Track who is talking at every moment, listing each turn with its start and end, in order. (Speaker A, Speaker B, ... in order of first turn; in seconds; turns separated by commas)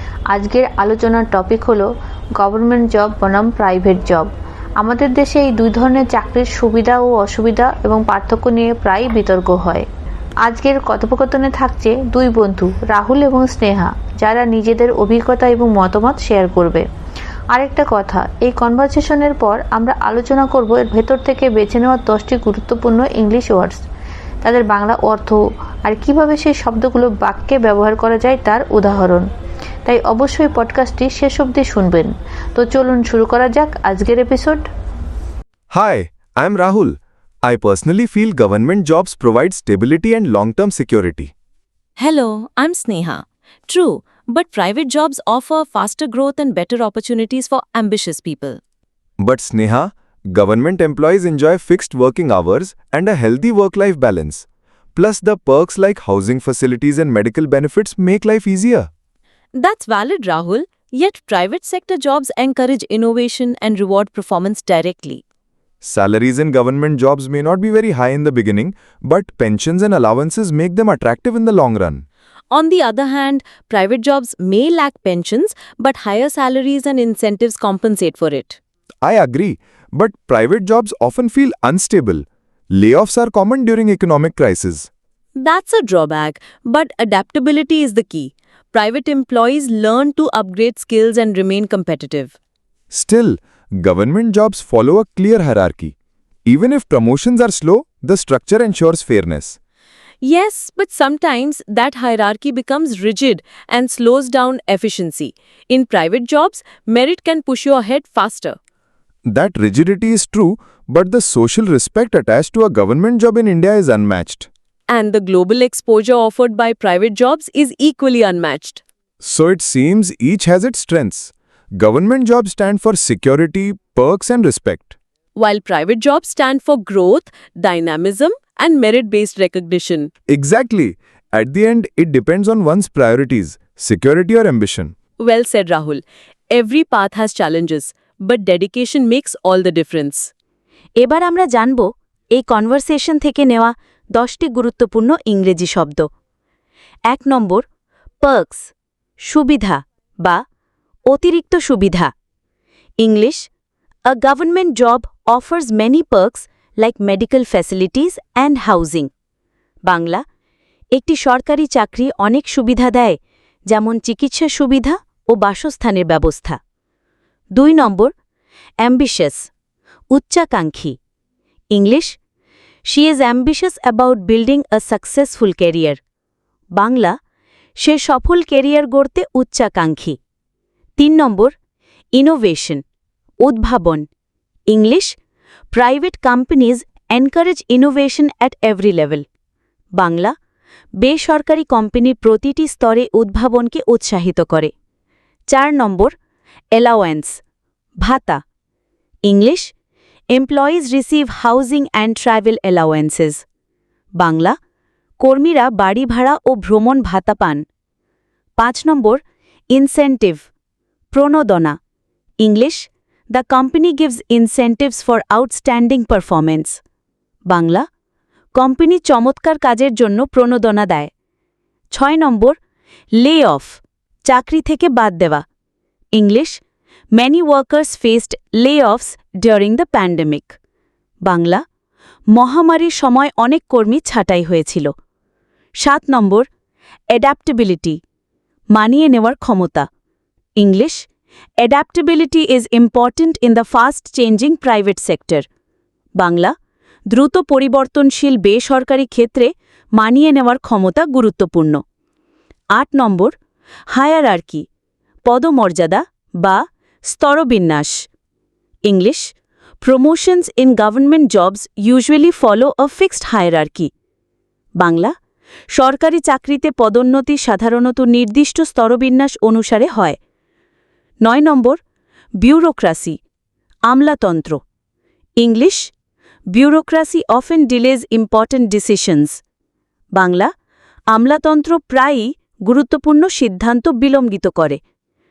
Speaker A: 0.3-1.9, Speaker A: 2.4-9.8, Speaker A: 10.4-16.8, Speaker A: 17.5-23.8, Speaker A: 24.4-29.2, Speaker A: 29.9-34.6, Speaker B: 35.7-41.3, Speaker C: 42.0-48.6, Speaker B: 49.2-58.9, Speaker C: 59.5-65.2, Speaker B: 65.8-72.0, Speaker C: 72.5-78.6, Speaker B: 79.0-84.9, Speaker C: 85.3-92.3, Speaker B: 92.9-95.9, Speaker B: 96.5-99.6, Speaker C: 100.2-108.6, Speaker B: 109.3-114.5, Speaker C: 114.9-118.8, Speaker B: 119.2-125.0, Speaker C: 125.3-130.1, Speaker B: 130.3-134.9, Speaker C: 135.2-140.3, Speaker D: 141.0-146.1, Speaker D: 147.1-147.7, Speaker D: 148.2-150.4, Speaker D: 151.1-152.1, Speaker D: 153.0-153.5, Speaker D: 154.1-159.1, Speaker D: 159.8-160.2, Speaker D: 160.9-163.2, Speaker D: 163.7-166.6, Speaker D: 167.5-168.1, Speaker D: 168.8-169.5, Speaker D: 170.1-171.0, Speaker D: 171.7-172.2, Speaker D: 172.9-176.0, Speaker D: 176.7-177.2, Speaker D: 177.8-180.2, Speaker D: 181.0-181.5, Speaker D: 182.1-182.8, Speaker D: 183.4-184.1, Speaker D: 184.7-185.2, Speaker D: 185.7-189.2, Speaker D: 190.0-190.3, Speaker D: 191.0-194.7, Speaker D: 195.5-196.1, Speaker D: 196.7-197.4, Speaker D: 198.0-198.4, Speaker D: 199.2-199.7, Speaker D: 200.3-203.4, Speaker D: 204.2-204.6, Speaker D: 205.2-207.6, Speaker D: 208.6-210.5, Speaker D: 211.1-211.8, Speaker D: 212.4-216.8, Speaker D: 217.5-217.8, Speaker D: 218.6-221.1, Speaker D: 221.9-222.6, Speaker D: 223.2-225.4, Speaker D: 226.1-226.6, Speaker D: 227.1-230.6, Speaker D: 231.2-231.6, Speaker D: 232.3-234.9, Speaker D: 235.8-236.5, Speaker D: 237.1-238.0, Speaker D: 238.7-239.9, Speaker D: 240.6-241.1, Speaker D: 241.6-245.5, Speaker D: 246.2-246.5, Speaker D: 247.1-251.8, Speaker D: 252.7-253.3, Speaker D: 253.9-254.7, Speaker D: 255.2-258.1, Speaker D: 258.9-263.9, Speaker D: 264.8-265.1, Speaker D: 265.7-270.2, Speaker D: 271.2-271.8, Speaker D: 272.4-273.2, Speaker D: 273.9-274.6, Speaker D: 275.4-275.9, Speaker D: 276.5-279.4, Speaker D: 280.1-280.5, Speaker D: 281.1-284.8